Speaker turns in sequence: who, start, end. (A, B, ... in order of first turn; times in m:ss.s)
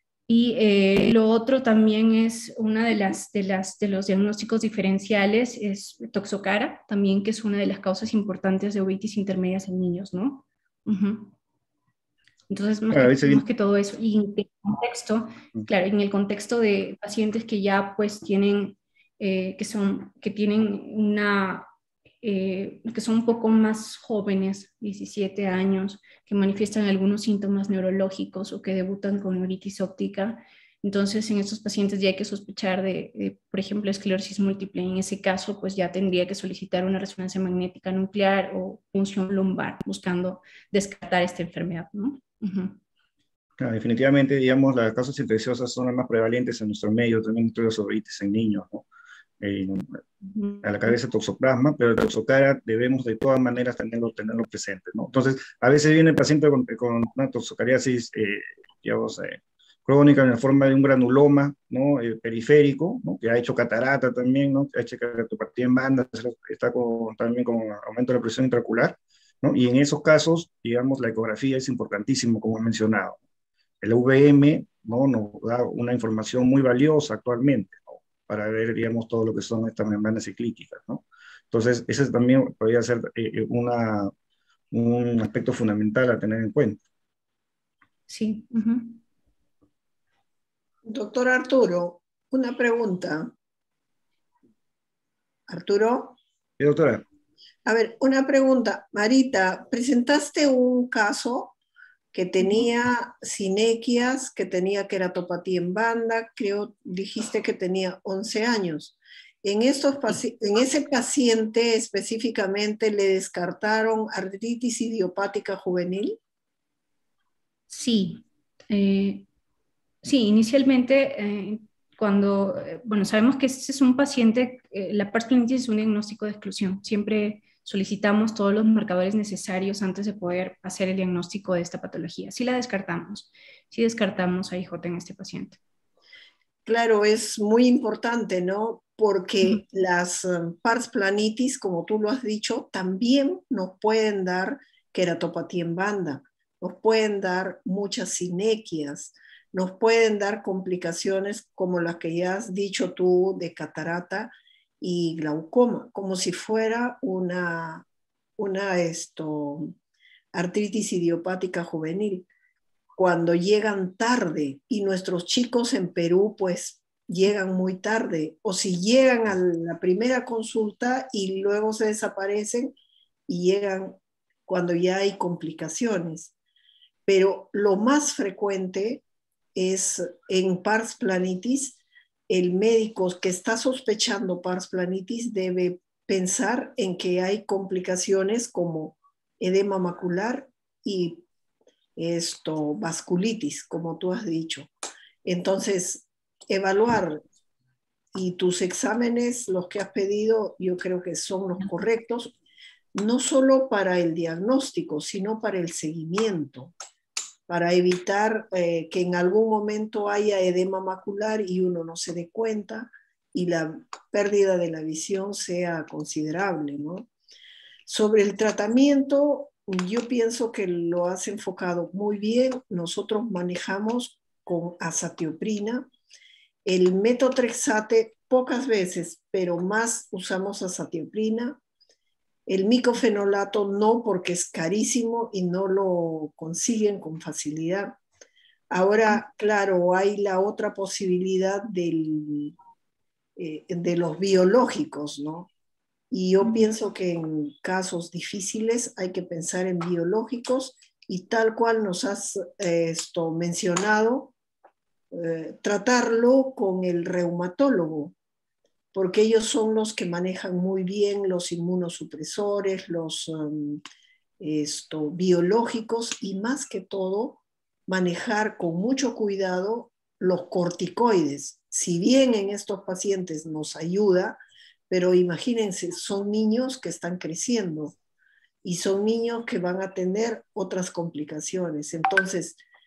0:00.3-0:11.3 A
0:12.5-0:21.7 A
0:12.9-0:13.4 B
0:22.2-0:42.8 A
0:43.6-0:48.9 B
0:49.4-0:50.0 B
0:50.4-0:51.0 A
0:50.6-1:13.2 B
1:13.8-1:24.1 B
1:24.7-1:26.8 B
1:28.1-1:29.0 A
1:30.8-1:33.3 C
1:35.5-1:36.2 C
1:36.6-1:37.0 B
1:37.7-1:41.6 C
1:42.1-1:56.2 C
1:57.7-1:59.2 A
2:00.0-2:15.6 A
2:16.7-2:37.9 C
2:38.4-2:39.7 C
2:40.3-2:42.3 C
2:43.0-2:52.8 C
2:53.3-2:56.3 C
2:57.1-2:59.0 C
2:59.6-3:11.2 C
3:12.0-3:14.7 C
3:15.2-3:17.2 C
3:18.1-3:22.4 C
3:22.9-3:26.7 C
3:27.5-3:37.1 C
3:37.9-3:45.9 C
3:46.6-3:51.6 C
3:52.5-3:58.0 C
3:58.7-4:02.6 C
4:03.4-4:05.5 C
4:06.1-4:14.3 C
4:15.1-4:18.1 C
4:18.9-4:23.8 C
4:24.4-4:38.0 C
4:38.6-4:42.6 C